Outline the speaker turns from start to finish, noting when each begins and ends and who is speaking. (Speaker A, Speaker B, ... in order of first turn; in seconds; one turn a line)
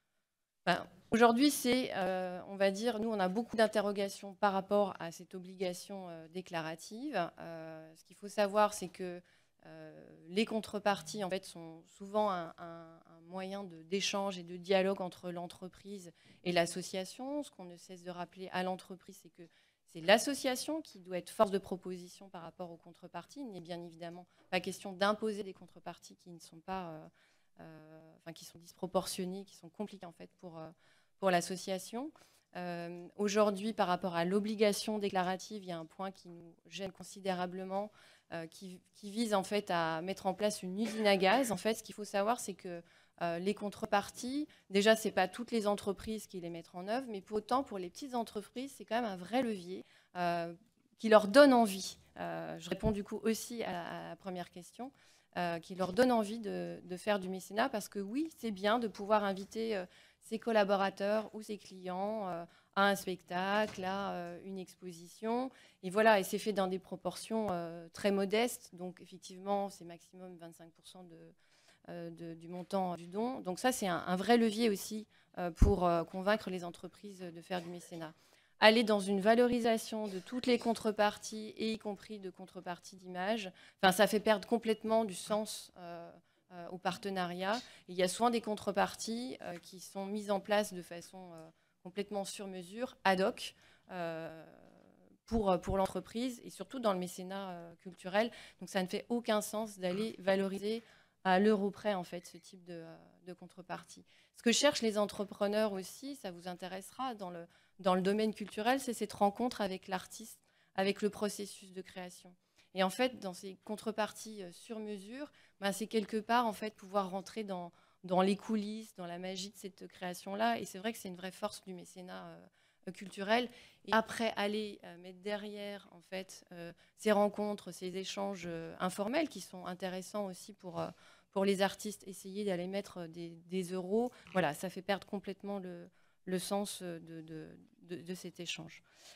Speaker A: 0.7-71.3
Speaker A: 71.9-94.7
Speaker A: 95.3-138.8